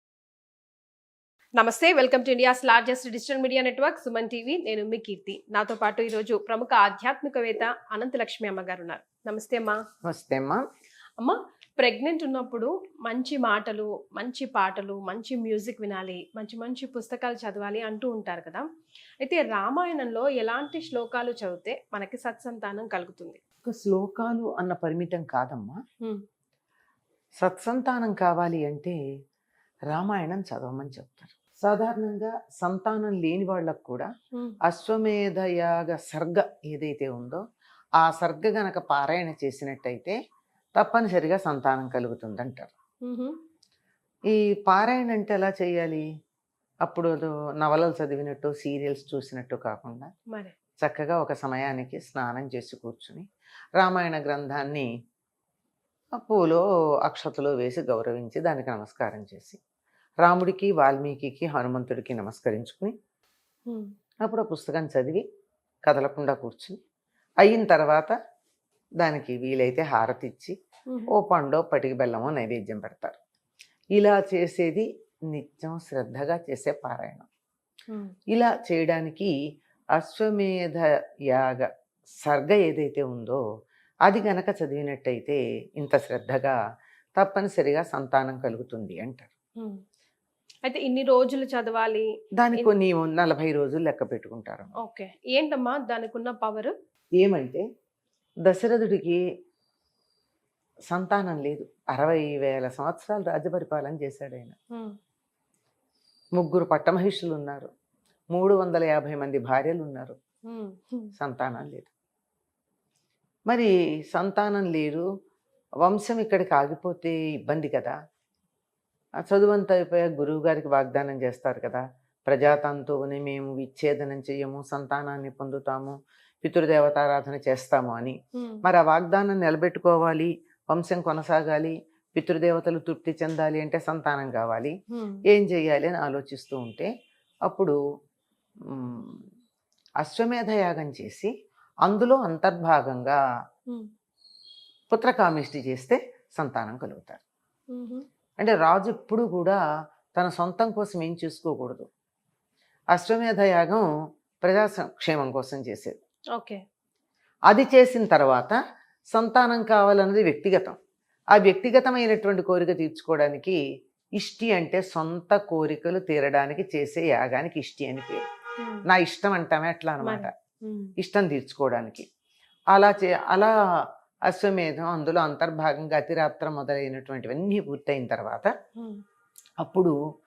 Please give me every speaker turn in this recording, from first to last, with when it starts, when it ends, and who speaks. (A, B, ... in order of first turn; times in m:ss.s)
0:01.6-0:09.8 A
0:10.0-0:10.7 B
0:11.2-0:18.7 A
0:19.2-0:23.4 A
0:23.6-0:25.8 B
0:27.4-0:29.0 B
0:29.9-0:34.1 B
0:34.7-0:37.4 B
0:38.0-0:40.2 B
0:40.8-0:42.7 B
0:43.0-0:43.3 A
0:44.3-0:46.0 B
0:46.9-0:50.1 B
0:50.8-0:53.2 B
0:53.8-0:54.9 B
0:56.2-0:59.6 B
1:00.2-1:02.9 B
1:04.2-1:05.2 B
1:05.9-1:06.8 B
1:07.4-1:08.2 B
1:09.0-1:10.6 B
1:11.1-1:13.2 B
1:14.0-1:17.3 B
1:18.3-1:19.3 B
1:20.0-1:21.7 B
1:22.2-1:23.4 B
1:24.1-1:26.6 B
1:27.2-1:29.3 B
1:30.7-1:32.0 A
1:32.4-1:34.7 B
1:34.8-1:36.7 A
1:37.2-1:37.6 B
1:38.4-1:39.2 B
1:40.9-1:44.6 B
1:46.4-1:47.7 B
1:48.3-1:50.2 B
1:50.5-1:51.1 A
1:51.2-1:51.9 B
1:53.5-1:55.1 B
1:55.8-1:58.0 B
1:59.2-2:14.7 B
2:08.4-2:08.6 A
2:14.9-2:15.2 A
2:15.3-2:16.9 B
2:17.5-2:17.8 B
2:18.7-2:19.2 B
2:20.0-2:21.3 B
2:21.8-2:23.2 B
2:24.9-2:27.2 B
2:27.7-2:28.0 A
2:28.4-2:29.6 B
2:30.2-2:31.9 B
2:32.9-2:33.8 B
2:34.4-2:36.0 B
2:36.4-2:36.6 A
2:37.5-2:38.6 B
2:39.1-2:40.8 B
2:41.3-2:43.6 B
2:44.2-2:48.2 B
2:48.6-2:48.8 A
2:48.9-2:50.3 B
2:50.0-2:50.9 A
2:51.0-2:52.1 B
2:52.7-2:53.5 B
2:54.3-2:58.5 B
2:59.6-3:00.0 B